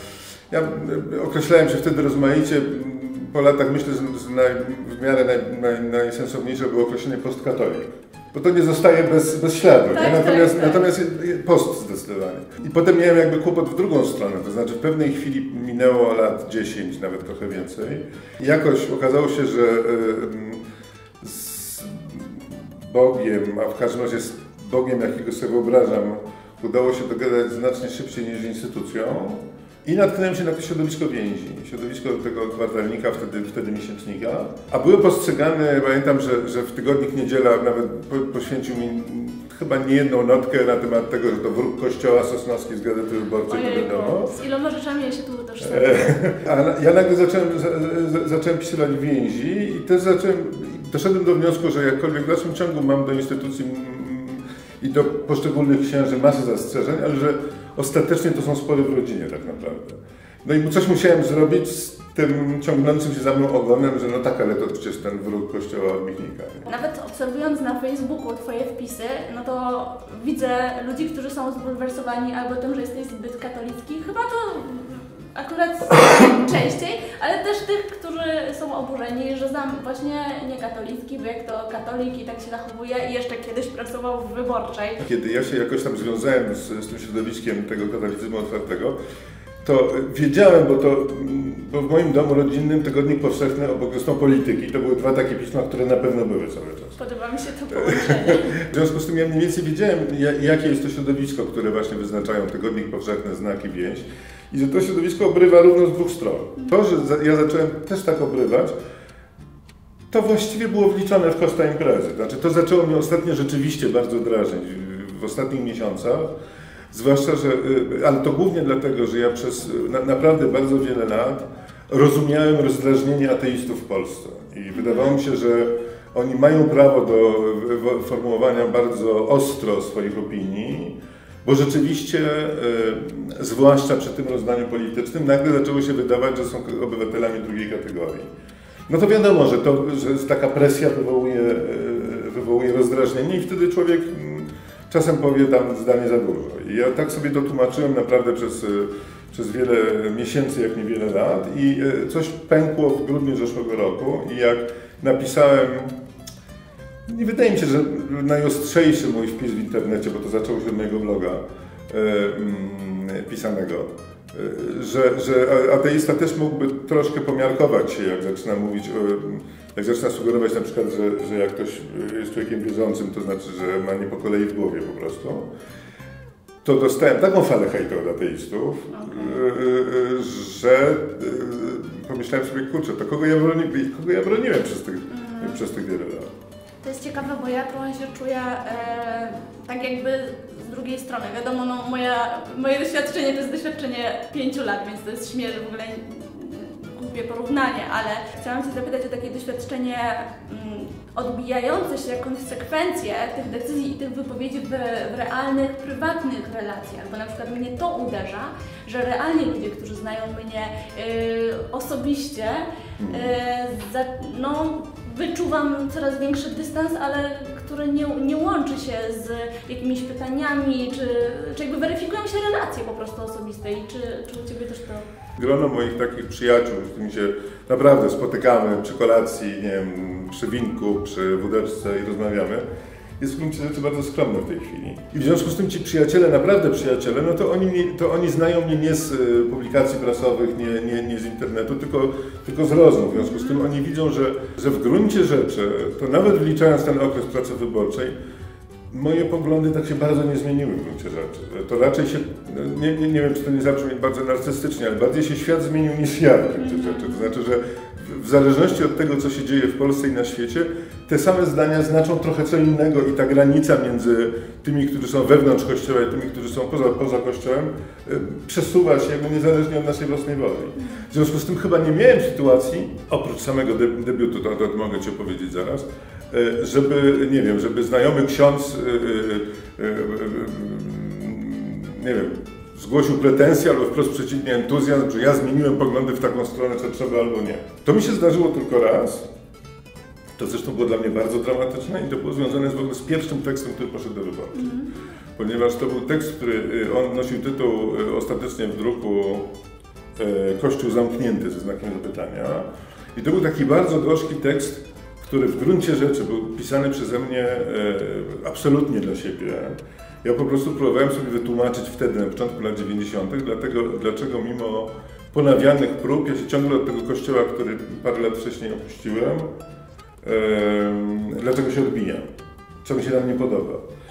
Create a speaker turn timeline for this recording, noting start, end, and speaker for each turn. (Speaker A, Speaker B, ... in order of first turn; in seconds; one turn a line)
Speaker A: 0.5-20.6
Speaker B: 9.9-10.9
Speaker A: 21.2-44.3
Speaker B: 43.5-46.1
Speaker A: 45.6-66.7
Speaker B: 66.7-85.0
Speaker A: 85.0-89.0
Speaker A: 89.6-97.0
Speaker B: 97.0-98.5
Speaker A: 98.0-108.7
Speaker A: 110.1-116.3
Speaker A: 116.9-138.3
Speaker B: 124.7-125.1
Speaker A: 138.9-155.9
Speaker A: 157.1-175.5
Speaker A: 176.6-186.3
Speaker B: 178.9-179.4
Speaker B: 185.1-185.6
Speaker B: 186.8-225.1
Speaker A: 213.0-213.3
Speaker A: 225.4-232.6
Speaker A: 233.2-248.1
Speaker B: 243.2-243.6
Speaker A: 248.9-289.2
Speaker B: 256.6-257.3
Speaker A: 290.4-294.7
Speaker B: 294.5-294.9
Speaker A: 295.4-299.5
Speaker A: 300.1-319.5
Speaker A: 320.2-322.2
Speaker A: 322.8-323.8